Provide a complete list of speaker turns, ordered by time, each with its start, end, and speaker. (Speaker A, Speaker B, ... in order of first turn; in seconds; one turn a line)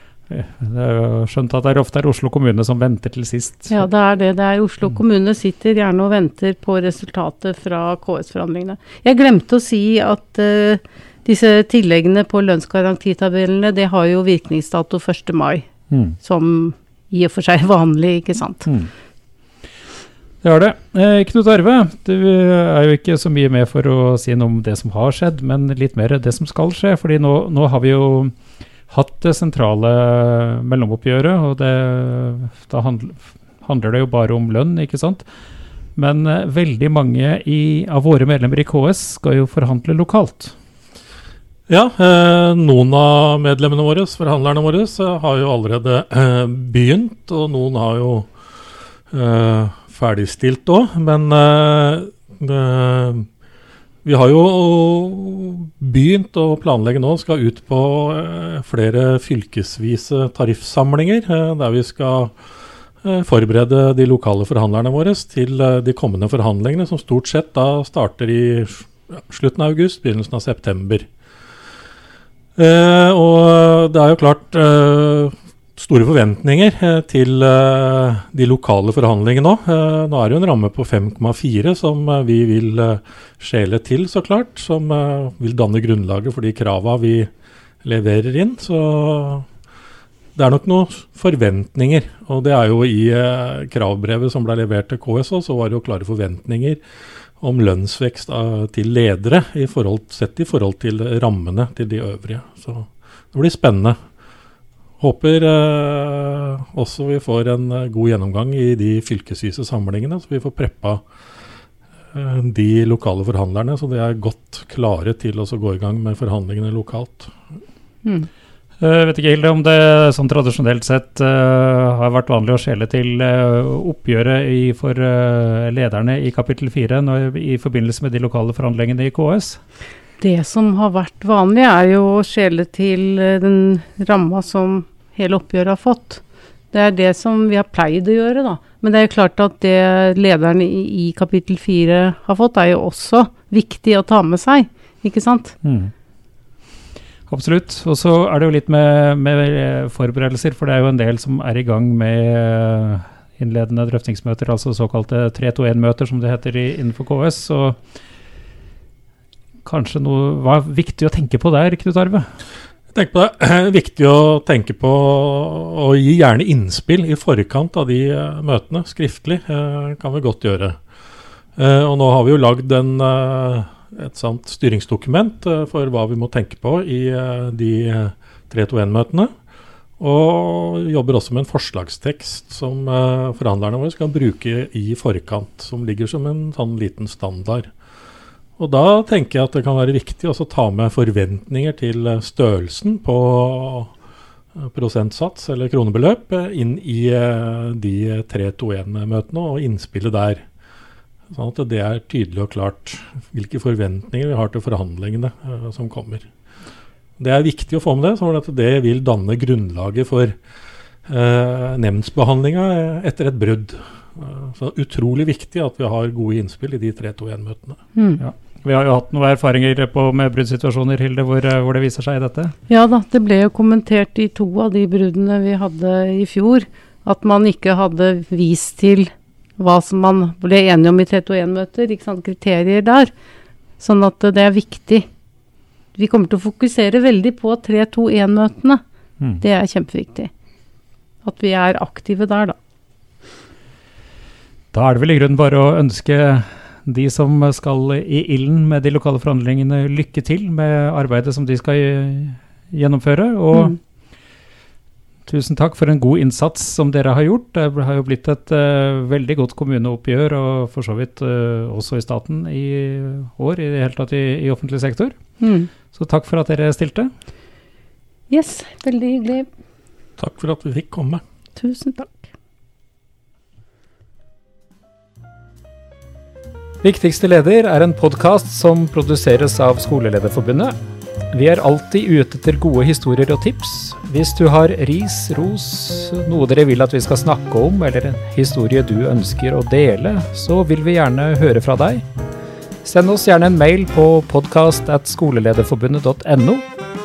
Speaker A: 0.3-3.9
Speaker B: 3.7-15.7
Speaker A: 15.9-16.2
Speaker B: 16.2-18.7
Speaker A: 18.7-18.9
Speaker A: 20.4-28.3
Speaker A: 28.9-35.2
Speaker A: 36.0-40.5
Speaker C: 41.7-48.3
Speaker C: 49.1-53.3
Speaker C: 54.0-62.3
Speaker C: 63.0-71.1
Speaker C: 72.6-87.3
Speaker C: 87.8-89.5
Speaker C: 90.4-96.8
Speaker C: 97.4-104.0
Speaker C: 105.0-111.0
Speaker C: 112.1-117.3
Speaker A: 118.8-129.6
Speaker B: 130.2-145.6
Speaker A: 145.6-145.9
Speaker A: 147.3-157.8
Speaker A: 159.7-162.3
Speaker C: 162.9-170.8
Speaker C: 171.6-179.3
Speaker C: 180.0-187.7
Speaker C: 188.6-193.9
Speaker C: 194.6-200.4
Speaker C: 201.3-206.3
Speaker C: 207.2-210.4
Speaker C: 211.1-217.8
Speaker B: 218.0-218.2
Speaker A: 218.2-222.6
Speaker B: 222.7-233.1
Speaker B: 233.8-235.1
Speaker B: 235.9-238.8
Speaker B: 239.4-240.3
Speaker B: 241.2-242.6
Speaker A: 244.7-253.8
Speaker A: 255.3-265.2
Speaker B: 265.4-265.7
Speaker A: 265.9-267.1
Speaker B: 268.3-269.5
Speaker C: 270.2-271.2
Speaker B: 271.6-272.3
Speaker A: 276.8-280.8
Speaker A: 281.3-292.0
Speaker A: 292.8-296.7